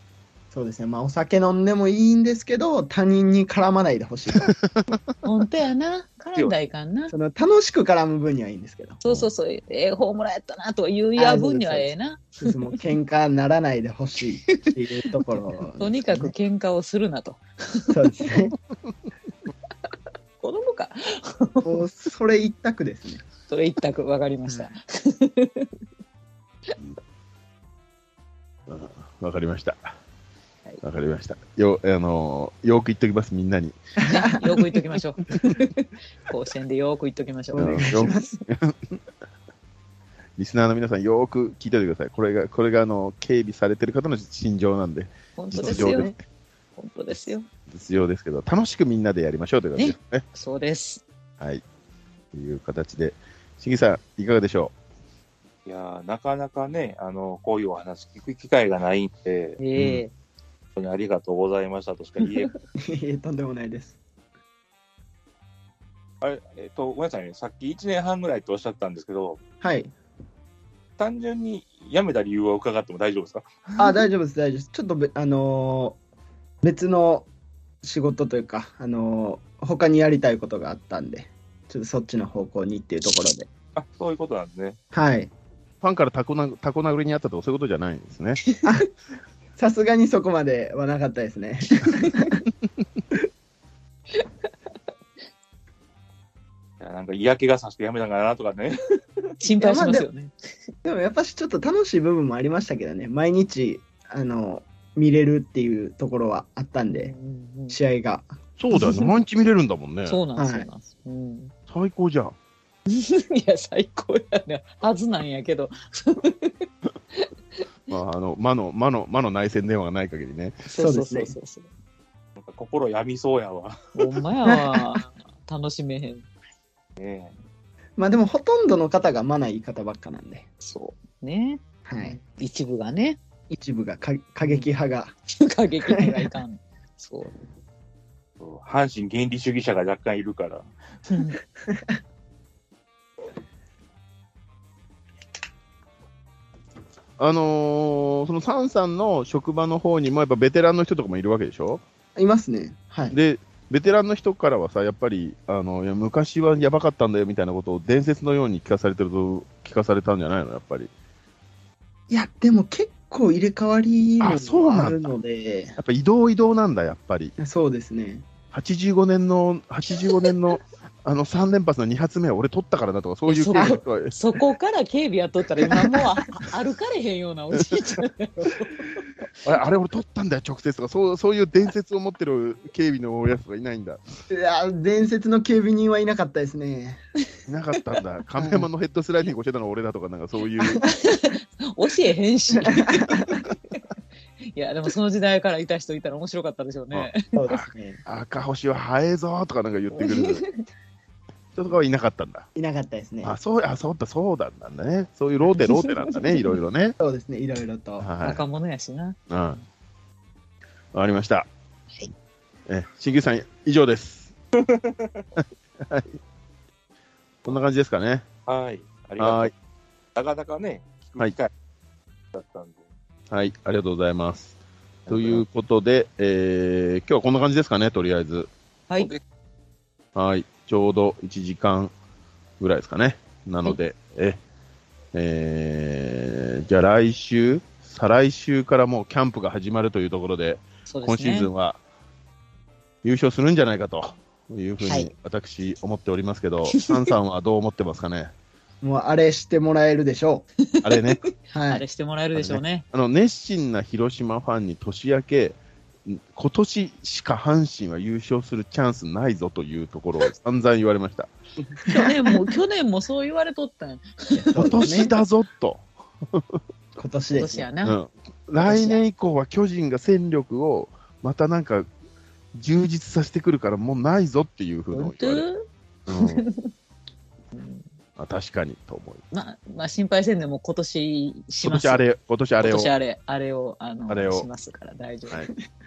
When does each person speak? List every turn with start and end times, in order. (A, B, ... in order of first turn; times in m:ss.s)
0:00.5-0:04.5 A
0:04.4-0:05.0 B
0:05.2-0:07.1 C
0:07.1-0:09.0 A
0:09.0-0:12.8 C
0:11.2-0:16.3 A
0:14.5-0:14.8 C
0:15.3-0:18.3 C
0:17.9-0:18.5 A
0:20.4-0:21.8 C
0:21.6-0:23.2 A
0:23.5-0:25.7 C
0:28.7-0:30.0 B
0:30.8-0:33.8 B
0:34.0-0:34.3 A
0:34.1-0:38.0 C
0:37.5-0:38.4 A
0:37.6-0:38.8 B
0:40.4-0:46.2 B
0:45.4-0:46.1 C
0:45.6-0:46.2 A
0:46.8-0:47.5 C
0:47.7-0:50.2 B
0:49.8-0:51.0 C
0:52.3-0:54.7 B
0:55.7-0:59.6 D
0:59.6-1:00.1 C
0:59.8-1:00.0 B
1:00.8-1:02.5 D
1:02.8-1:04.0 A
1:06.2-1:09.4 D
1:09.6-1:09.9 A
1:11.0-1:13.8 D
1:13.8-1:16.0 A
1:16.6-1:17.3 A
1:17.8-1:23.5 A
1:23.8-1:24.8 D
1:24.9-1:25.3 A
1:25.8-1:28.4 B
1:28.6-1:28.9 A
1:29.6-1:32.4 A
1:31.9-1:32.2 C
1:36.8-1:38.9 D
1:39.4-1:40.3 C
1:39.6-1:40.1 A
1:40.8-1:47.1 A
1:46.9-1:47.8 C
1:47.7-1:48.3 A
1:48.6-1:50.2 B
1:48.7-1:49.1 C
1:50.1-1:51.5 C
1:50.4-1:50.7 A
1:51.7-1:52.3 B
1:52.9-1:57.6 C
1:57.9-2:00.6 B
2:00.7-2:01.7 C
2:00.8-2:01.4 A
2:02.4-2:03.9 D
2:04.0-2:06.3 C
2:04.5-2:05.0 A
2:07.0-2:07.4 D
2:08.0-2:10.4 A
2:10.6-2:13.2 C
2:11.9-2:12.2 A
2:13.5-2:15.1 A
2:15.3-2:17.4 C
2:15.9-2:16.3 A
2:18.4-2:20.7 D
2:21.1-2:21.4 C
2:21.7-2:22.0 A
2:27.2-2:31.8 B
2:32.2-2:33.2 A
2:33.1-2:40.9 B
2:42.1-2:45.8 A
2:44.2-2:45.1 B
2:45.8-2:47.4 B
2:47.4-2:48.3 A
2:48.5-2:54.1 B
2:53.3-2:59.0 C
2:53.5-2:53.8 A
2:55.6-2:56.0 A
2:57.5-2:58.0 B
2:59.4-3:04.0 B
3:04.3-3:07.0 A
3:07.5-3:10.9 B
3:08.4-3:08.7 A
3:10.6-3:10.8 A
3:10.8-3:13.8 C
3:12.5-3:13.4 A
3:14.5-3:17.4 C
3:16.9-3:20.5 B
3:17.4-3:18.0 A
3:19.9-3:20.6 C
3:21.6-3:22.5 B
3:22.6-3:23.4 A
3:23.2-3:27.0 B
3:25.5-3:26.5 C
3:27.0-3:28.1 A
3:28.0-3:28.4 B
3:28.2-3:29.6 C
3:29.3-3:29.6 B
3:30.9-3:31.5 B
3:32.7-3:34.3 B
3:34.6-3:35.3 D
3:35.8-3:36.2 B
3:37.4-3:38.2 B
3:38.5-3:39.5 D
3:39.2-3:39.5 B
3:40.2-3:41.5 D
3:42.3-3:42.8 D
3:43.3-3:44.6 B
3:45.1-3:45.4 D
3:45.1-3:48.5 B
3:50.2-3:51.9 B
3:52.6-3:54.4 B
3:55.1-4:01.8 B
4:00.9-4:01.5 C
4:03.0-4:08.3 B
4:08.8-4:10.5 A
4:10.7-4:12.8 C
4:10.8-4:11.2 B
4:11.5-4:11.8 A
4:12.4-4:21.3 B
4:21.8-4:22.4 A
4:21.9-4:25.0 C
4:24.4-4:25.1 A
4:24.6-4:26.6 B
4:27.0-4:27.7 A
4:27.3-4:28.0 C
4:27.8-4:31.9 B
4:28.6-4:29.0 C
4:32.6-4:35.5 B
4:34.9-4:36.7 C
4:36.1-4:36.4 B
4:37.5-4:37.8 C
4:38.2-4:39.2 B
4:39.3-4:42.0 C
4:41.6-4:42.9 B
4:42.6-4:45.4 C
4:44.1-4:44.5 B